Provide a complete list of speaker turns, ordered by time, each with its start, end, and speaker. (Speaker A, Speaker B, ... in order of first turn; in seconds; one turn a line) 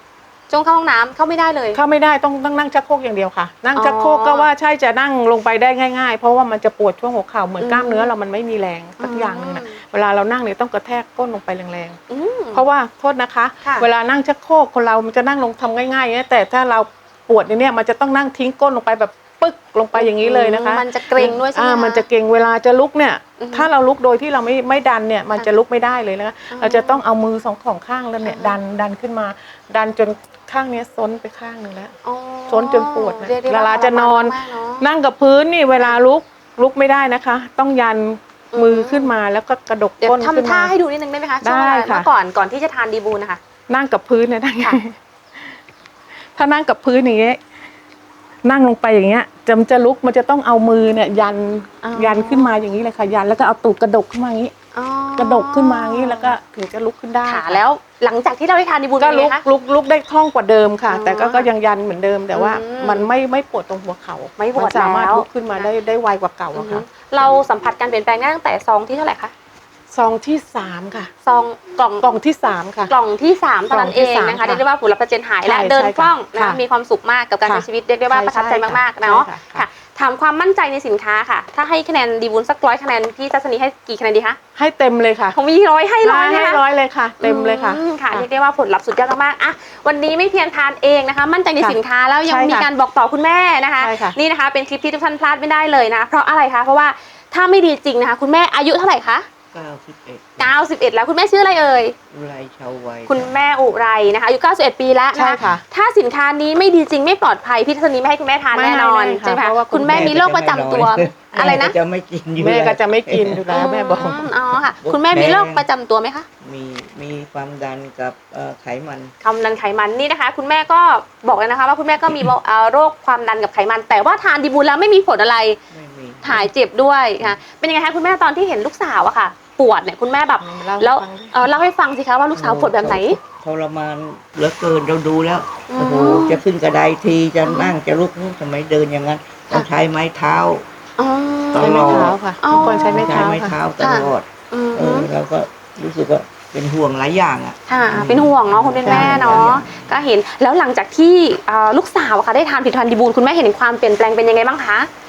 Speaker A: 0.5-1.8
Speaker B: 1.7-12.0
Speaker A: 3.8-4.5
Speaker A: 7.6-8.1
Speaker A: 9.0-9.8
Speaker A: 12.1-12.6
Speaker B: 12.5-31.9
Speaker A: 19.9-22.1
Speaker A: 23.4-23.7
Speaker A: 26.5-27.0
Speaker A: 28.2-28.6
Speaker A: 32.0-34.9
Speaker B: 32.5-40.7
Speaker A: 38.5-39.1
Speaker A: 40.0-43.4
Speaker B: 41.4-42.1
Speaker B: 43.7-45.0
Speaker B: 46.4-47.4
Speaker B: 48.5-54.5
Speaker A: 51.8-52.6
Speaker A: 54.7-56.3
Speaker B: 55.2-57.6
Speaker A: 57.2-59.4
Speaker B: 59.0-66.8
Speaker A: 60.9-61.5
Speaker A: 62.3-63.1
Speaker A: 64.4-65.7
Speaker A: 66.5-69.3
Speaker B: 69.9-71.1
Speaker A: 71.2-72.2
Speaker B: 72.0-72.9
Speaker A: 72.9-84.4
Speaker B: 73.7-74.6
Speaker B: 75.5-76.6
Speaker B: 77.4-79.7
Speaker B: 84.6-85.4
Speaker A: 85.3-86.6
Speaker B: 86.0-88.2
Speaker A: 87.2-99.3
Speaker B: 91.6-92.7
Speaker B: 93.8-94.2
Speaker C: 99.5-100.5
Speaker A: 100.4-102.0
Speaker C: 102.1-103.3
Speaker A: 103.1-111.7
Speaker B: 105.1-105.6
Speaker B: 108.5-110.2
Speaker C: 109.8-115.7
Speaker B: 112.4-114.2
Speaker A: 113.5-116.3
Speaker C: 116.4-119.1
Speaker A: 119.2-125.6
Speaker C: 125.7-126.5
Speaker A: 126.2-133.2
Speaker B: 130.4-131.5
Speaker C: 132.3-140.7
Speaker A: 135.7-136.4
Speaker A: 137.4-137.8
Speaker A: 141.0-143.3
Speaker C: 141.5-150.0
Speaker B: 141.6-143.6
Speaker A: 143.8-145.1
Speaker A: 147.7-154.9
Speaker B: 148.8-149.5